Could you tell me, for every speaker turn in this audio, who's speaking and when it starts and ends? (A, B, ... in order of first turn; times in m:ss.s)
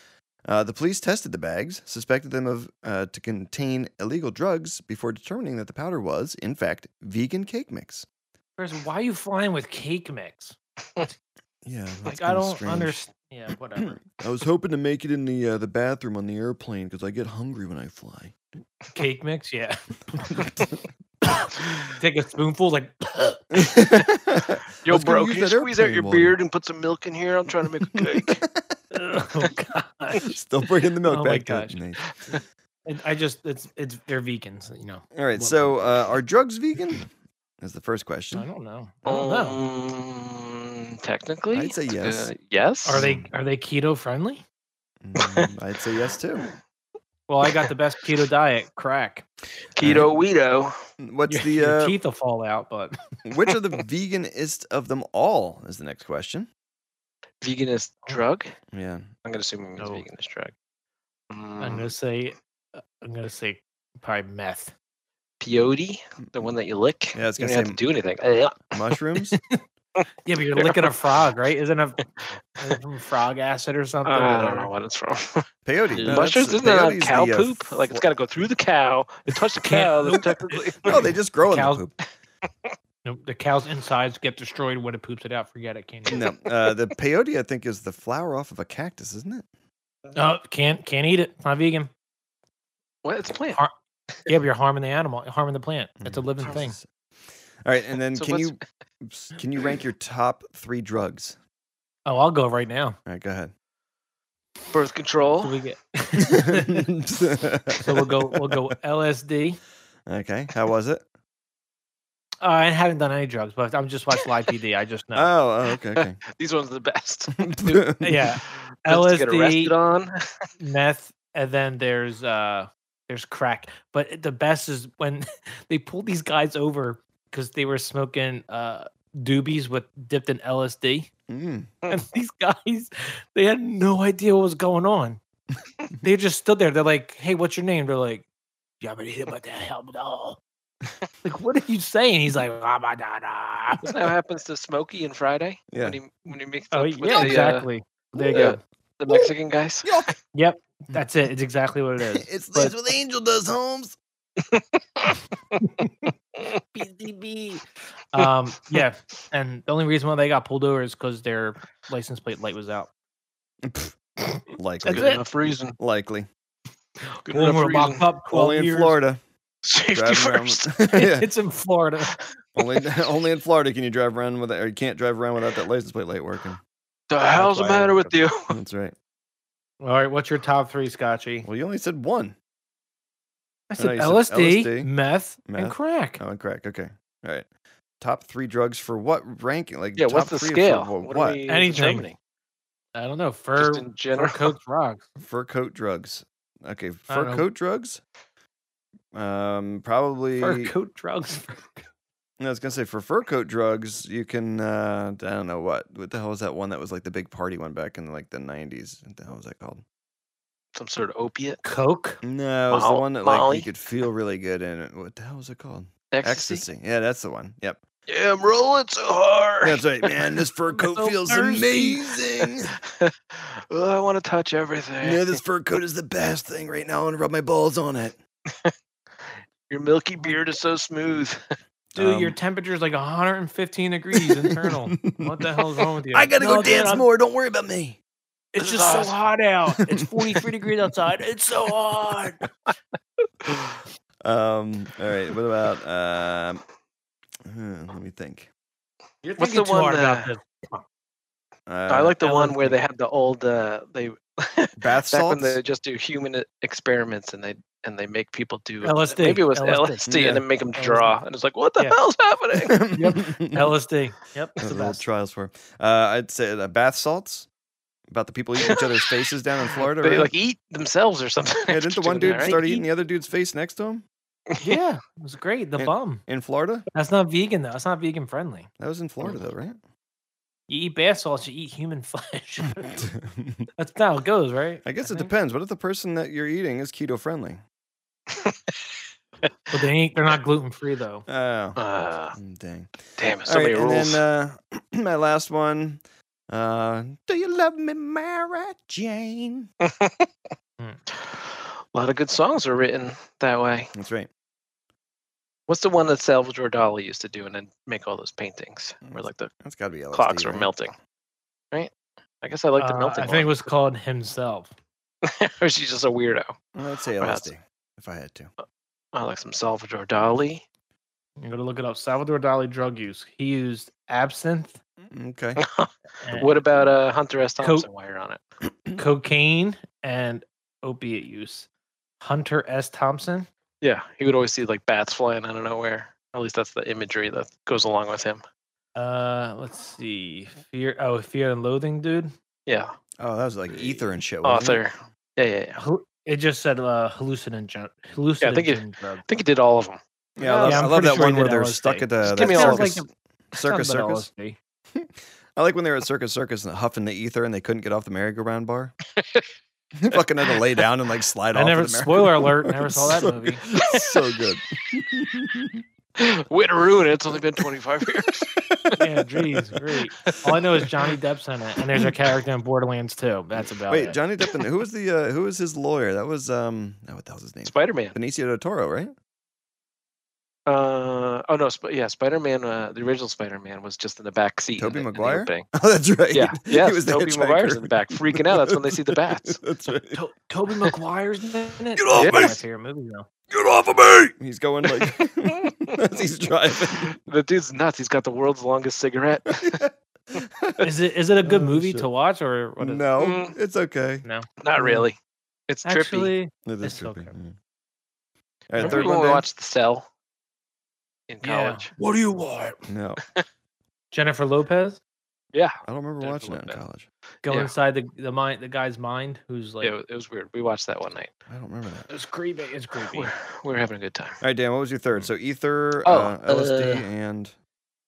0:00.4-0:08.0 A
0:08.6-0:10.6 B
0:11.6-0:13.0 A
0:12.0-0:14.0 B
0:13.8-0:18.3 A
0:18.9-0:19.8 B
0:20.3-0:20.7 A
0:21.3-0:23.6 B
0:23.5-0:26.3 A
0:24.8-0:28.4 C
0:27.8-0:28.7 A
0:28.9-0:30.3 B
0:30.2-0:32.0 A
0:31.0-0:31.8 B
0:32.8-0:35.8 B
0:35.1-0:37.1 A
0:37.6-0:38.5 A
0:38.3-0:39.6 B
0:39.0-0:43.0 C
0:41.5-0:42.3 A
0:42.8-0:44.4 B
0:42.9-0:43.3 A
0:45.0-0:46.5 A
0:45.2-0:45.5 C
0:47.3-0:49.2 B
0:49.8-0:50.8 C
0:49.8-0:50.1 A
0:51.0-0:52.0 A
0:51.3-0:53.0 B
0:53.2-0:56.5 A
0:57.4-0:58.5 C
0:58.7-0:59.1 A
0:59.2-1:00.5 C
0:59.8-1:00.0 B
1:01.3-1:01.9 C
1:01.6-1:04.7 B
1:05.4-1:08.8 C
1:07.1-1:07.8 A
1:08.7-1:09.4 A
1:10.2-1:12.0 B
1:10.6-1:10.9 C
1:12.6-1:14.7 B
1:14.0-1:15.4 C
1:15.6-1:18.0 A
1:15.9-1:16.3 B
1:16.0-1:21.0 C
1:19.5-1:21.8 B
1:20.8-1:21.9 A
1:23.0-1:26.2 B
1:26.1-1:26.4 C
1:26.1-1:29.4 A
1:30.1-1:31.9 B
1:33.0-1:33.6 C
1:34.3-1:36.8 B
1:36.0-1:36.8 A
1:37.6-1:41.4 A
1:38.1-1:38.6 C
1:42.0-1:43.0 B
1:43.0-1:43.5 A
1:44.7-1:45.6 C
1:45.4-1:46.9 B
1:46.2-1:48.6 A
1:47.8-1:49.6 B
1:50.1-1:51.0 A
1:52.4-1:55.3 B
1:55.1-1:56.2 A
1:56.0-1:57.8 C
1:57.4-1:58.3 A
1:58.0-1:59.7 B
1:58.8-2:00.5 C
2:00.6-2:11.1 B
2:11.3-2:11.7 A
2:11.9-2:15.2 B
2:16.0-2:18.2 B
2:18.8-2:20.4 B
2:21.2-2:23.9 B
2:23.8-2:27.6 C
2:25.7-2:26.0 A
2:26.7-2:28.6 B
2:28.1-2:28.5 A
2:28.3-2:30.1 C
2:29.8-2:30.1 A
2:30.3-2:32.7 B
2:32.1-2:34.0 A
2:34.5-2:35.2 C
2:35.6-2:35.9 B
2:36.7-2:42.9 B
2:43.6-2:44.0 A
2:44.2-2:45.2 B
2:44.5-2:45.2 A
2:44.9-2:45.8 C
2:45.7-2:46.3 A
2:47.2-2:48.1 C
2:47.2-2:49.0 B
2:48.3-2:49.2 A
2:49.6-2:50.7 C
2:49.9-2:51.3 A
2:50.9-2:52.1 B
2:52.6-2:56.6 A
2:57.1-2:58.5 C
2:57.3-2:58.9 A
2:59.8-3:01.5 B
3:01.4-3:02.3 A
3:03.7-3:06.2 B
3:03.8-3:04.9 A
3:05.4-3:07.5 A
3:08.0-3:11.4 A
3:10.0-3:12.2 C
3:11.5-3:12.1 B
3:12.9-3:15.0 B
3:13.6-3:14.5 C
3:15.2-3:18.0 A
3:17.1-3:17.4 B
3:19.1-3:20.7 A
3:20.4-3:21.8 B
3:22.4-3:29.8 A
3:30.7-3:31.6 C
3:31.6-3:32.2 B
3:32.2-3:37.8 A
3:32.7-3:33.7 C
3:36.1-3:36.6 C
3:38.1-3:40.2 C
3:39.6-3:42.8 A
3:40.7-3:42.0 B
3:42.9-3:45.4 C
3:45.0-3:48.2 A
3:49.7-3:51.4 C
3:51.9-3:52.4 A
3:52.0-3:57.1 B
3:54.5-3:55.4 A
3:56.1-3:58.0 A
3:58.5-4:02.4 B
3:58.6-3:59.1 C
4:04.2-4:06.6 A
4:07.4-4:08.5 A
4:09.2-4:10.8 B
4:09.4-4:10.3 C
4:11.7-4:12.2 A
4:11.9-4:22.8 C
4:12.2-4:12.8 B
4:14.8-4:15.6 A
4:18.8-4:20.2 B
4:20.1-4:20.4 A
4:20.8-4:21.2 B
4:22.6-4:23.7 A
4:22.9-4:25.0 B
4:24.6-4:27.5 A
4:28.1-4:30.3 A
4:28.6-4:28.9 C
4:29.7-4:32.6 C
4:31.7-4:34.0 A
4:32.2-4:32.8 B
4:34.6-4:36.2 B
4:35.8-4:36.8 A
4:36.9-4:38.7 B
4:38.8-4:39.8 A
4:40.7-4:43.1 B
4:43.1-4:43.7 A
4:43.8-4:45.3 B
4:44.8-4:47.6 A
4:48.3-4:48.7 C
4:49.7-4:51.2 B
4:51.3-4:51.8 A
4:51.8-4:52.4 C
4:52.3-4:59.7 A
4:53.2-4:54.2 C
4:59.8-5:00.3 C
5:01.2-5:03.9 C
5:03.9-5:04.3 A
5:05.7-5:09.5 C
5:09.0-5:10.7 A
5:10.1-5:10.9 C
5:11.7-5:13.6 C
5:12.8-5:14.7 B
5:15.2-5:16.6 C
5:16.7-5:18.5 A
5:17.2-5:17.5 C
5:19.1-5:20.6 C
5:21.4-5:24.8 B
5:25.1-5:25.6 A
5:25.6-5:28.4 C
5:26.2-5:26.8 B
5:27.6-5:27.9 B
5:29.0-5:31.7 B
5:32.2-5:33.5 B
5:33.8-5:38.4 C
5:39.0-5:42.3 B
5:42.7-5:42.9 C
5:43.2-5:44.8 A
5:43.7-5:45.8 C
5:45.8-5:49.2 B
5:48.4-5:50.0 C
5:50.4-5:54.3 A
5:50.4-5:54.6 B
5:50.6-5:50.9 C
5:52.2-5:53.0 C
5:54.9-5:58.9 A
5:59.2-5:59.4 C
6:00.0-6:05.8 A
6:01.5-6:03.6 B
6:03.8-6:04.1 C
6:06.2-6:08.9 C
6:09.0-6:14.2 B
6:10.2-6:11.1 C
6:13.9-6:19.1 A
6:17.6-6:18.2 C
6:20.7-6:25.6 C
6:24.8-6:30.2 A
6:26.3-6:29.6 C
6:30.1-6:33.3 B
6:32.0-6:32.6 A
6:32.1-6:32.6 C
6:33.5-6:37.1 A
6:35.4-6:35.7 C
6:36.9-6:39.8 C
6:39.5-6:40.9 A
6:40.8-6:43.1 B
6:41.4-6:42.1 A
6:42.8-6:44.2 A
6:43.2-6:43.6 C
6:44.2-6:45.1 B
6:44.6-6:45.2 C
6:45.7-6:46.3 C
6:45.8-6:47.3 B
6:46.6-6:47.6 A
6:48.7-6:49.4 A
6:48.8-6:50.1 C
6:48.8-6:49.1 B
6:51.3-6:51.9 C
6:51.4-6:52.8 B
6:52.9-6:53.2 A
6:54.1-6:55.0 B
6:55.5-6:56.8 C
6:55.8-6:57.1 A
6:57.4-6:59.9 B
6:59.8-7:01.3 C
7:01.5-7:02.0 A
7:02.1-7:03.3 B
7:03.1-7:04.4 C
7:04.4-7:07.5 A
7:06.0-7:07.0 C